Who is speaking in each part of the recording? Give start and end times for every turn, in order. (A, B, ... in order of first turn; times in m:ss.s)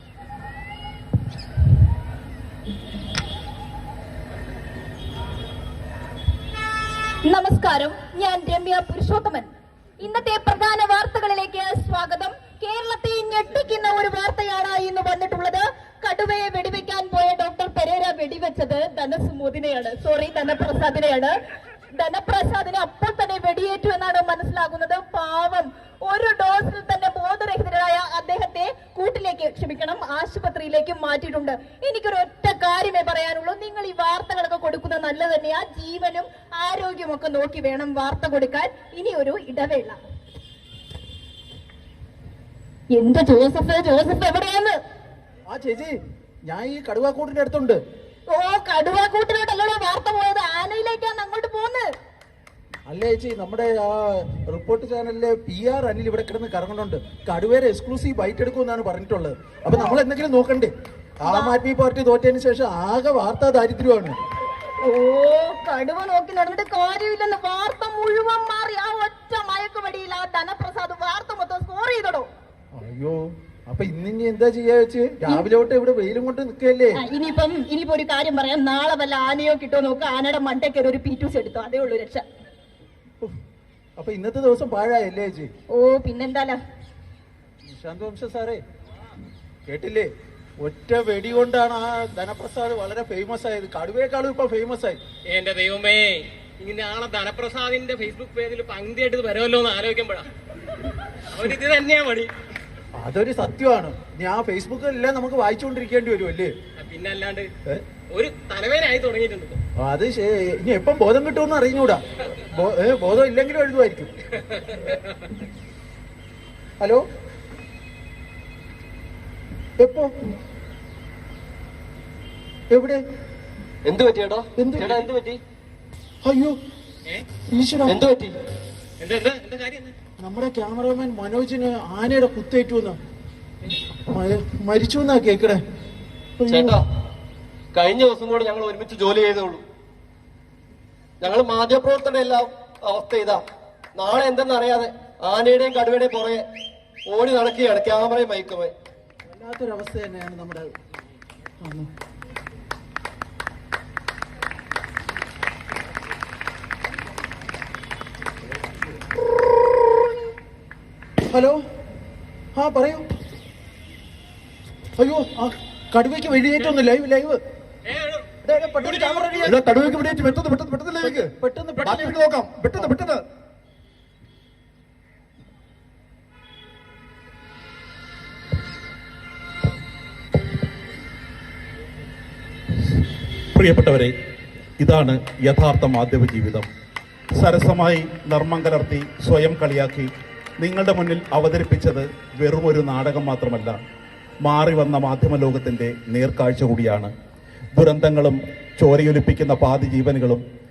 0:07.2-0:21.4 A
0:21.9-0:40.0 A
0:42.9-0:44.8 A
0:45.5-0:47.8 B
0:48.3-0:51.9 A
0:52.9-1:00.7 B
1:01.2-1:04.2 B
1:01.2-1:01.6 A
1:04.8-1:12.3 A
1:12.7-1:17.0 B
1:17.0-1:22.2 A
1:24.0-1:25.5 B
1:25.7-1:26.6 A
1:27.6-1:28.6 B
1:29.7-1:35.0 B
1:35.3-1:40.3 C
1:41.3-1:42.3 C
1:43.0-1:46.5 B
1:46.8-1:47.5 C
1:48.0-1:49.6 C
1:49.8-1:54.1 B
1:54.5-1:55.0 C
1:59.8-2:00.1 B
2:02.7-2:03.0 B
2:03.9-2:04.4 D
2:04.6-2:05.0 B
2:06.2-2:06.6 B
2:07.5-2:08.0 B
2:09.0-2:09.9 C
2:10.2-2:13.0 B
2:14.1-2:15.6 B
2:16.4-2:16.8 B
2:21.5-2:23.4 D
2:24.3-2:24.9 D
2:28.2-2:28.6 D
2:29.3-2:30.7 B
2:31.6-2:31.9 B
2:41.3-2:41.6 B
2:42.6-2:43.0 B
2:45.0-2:47.4 B
2:47.9-2:49.6 C
2:48.4-2:49.4 B
2:49.4-2:51.3 E
2:51.0-2:53.0 B
2:51.8-2:53.2 E
3:03.5-3:04.1 F
3:04.8-3:06.7 F
3:07.4-3:10.1 F
3:10.6-3:13.8 F
3:14.4-3:17.1 F
3:17.8-3:20.4 F